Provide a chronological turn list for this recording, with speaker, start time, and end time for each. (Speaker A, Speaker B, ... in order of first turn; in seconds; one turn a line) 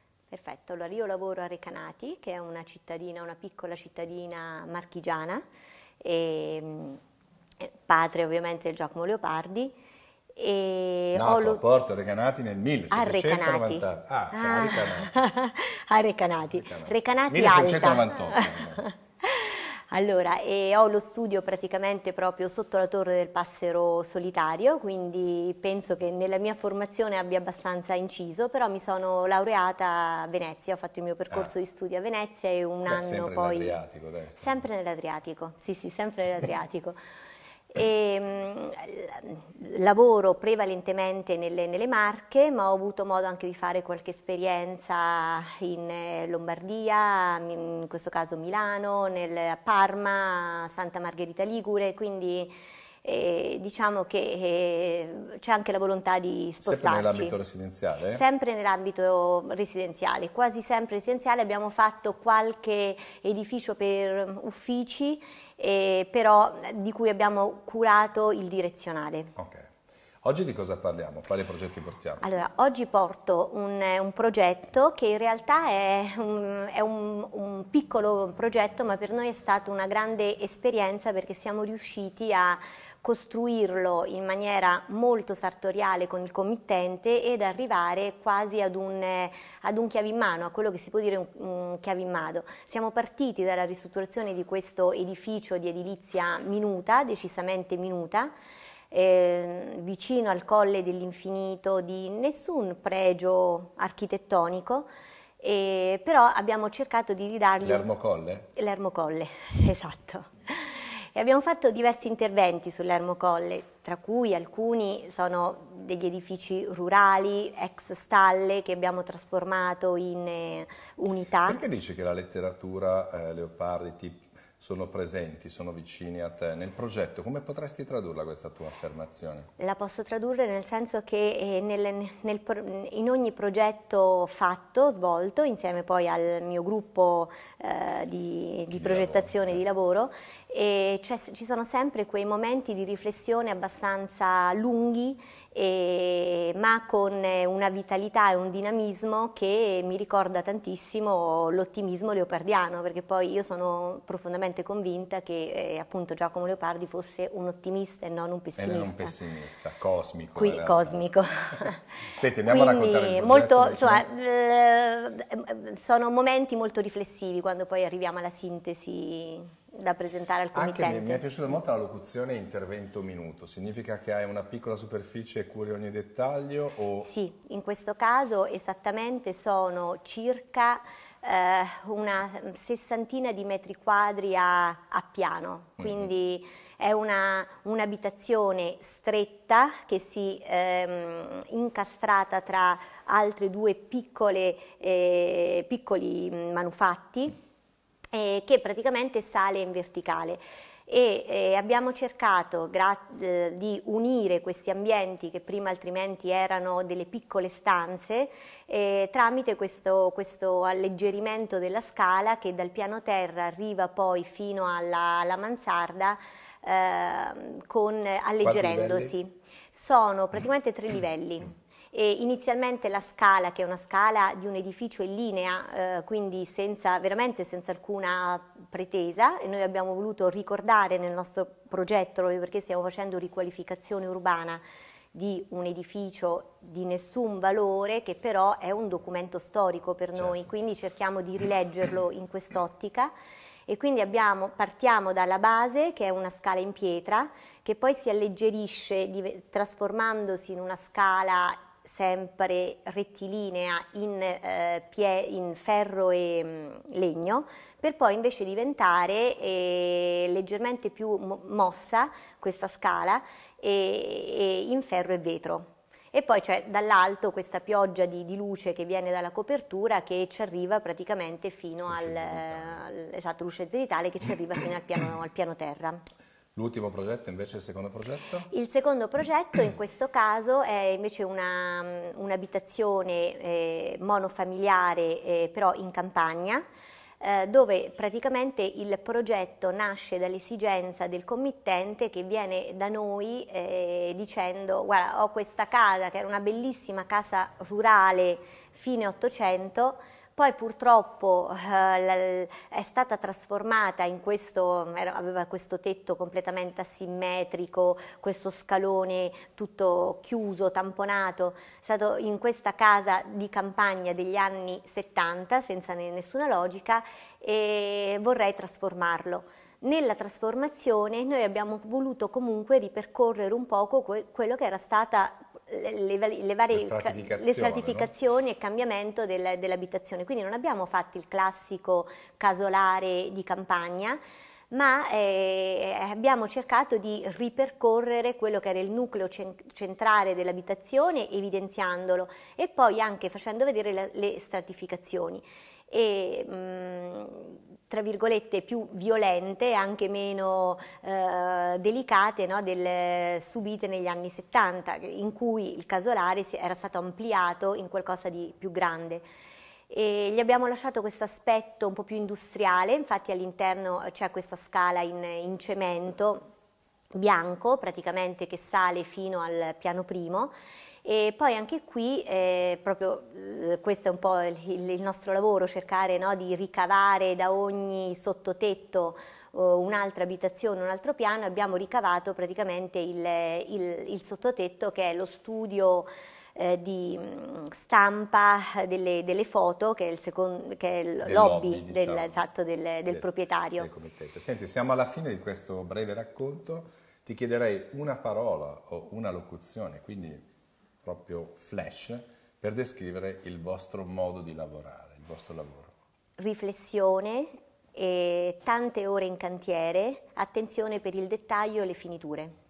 Speaker A: 0.3-5.4
Speaker A: 6.0-7.0
Speaker A: 7.6-9.7
Speaker A: 10.3-11.6
Speaker B: 11.1-15.3
Speaker A: 12.9-33.8
Speaker B: 16.4-18.8
Speaker B: 32.9-34.6
Speaker A: 34.4-37.0
Speaker A: 37.7-52.5
Speaker A: 53.0-57.3
Speaker B: 56.6-58.2
Speaker A: 58.1-69.3
Speaker B: 69.4-69.7
Speaker B: 70.2-72.2
Speaker A: 72.2-98.3
Speaker A: 98.9-104.9
Speaker A: 105.4-107.9
Speaker B: 107.6-108.5
Speaker A: 108.5-121.6
Speaker B: 121.5-129.5
Speaker A: 129.6-159.2
Speaker B: 138.7-139.6
Speaker B: 158.6-161.1
Speaker A: 160.4-161.8
Speaker B: 162.2-164.1
Speaker A: 162.4-171.2
Speaker B: 170.5-177.1
Speaker A: 177.0-197.3
Speaker A: 198.1-234.6
Speaker B: 218.4-219.1
Speaker A: 235.1-243.1
Speaker A: 243.7-276.0
Speaker B: 271.9-272.8
Speaker B: 276.6-278.5
Speaker A: 278.5-286.6
Speaker A: 287.2-334.2
Speaker B: 326.7-328.1
Speaker A: 334.7-359.2
Speaker A: 359.9-366.4
Speaker A: 367.1-370.5
Speaker A: 371.0-393.9
Speaker B: 391.2-392.4
Speaker B: 393.8-400.4
Speaker B: 401.0-405.9
Speaker A: 406.4-412.5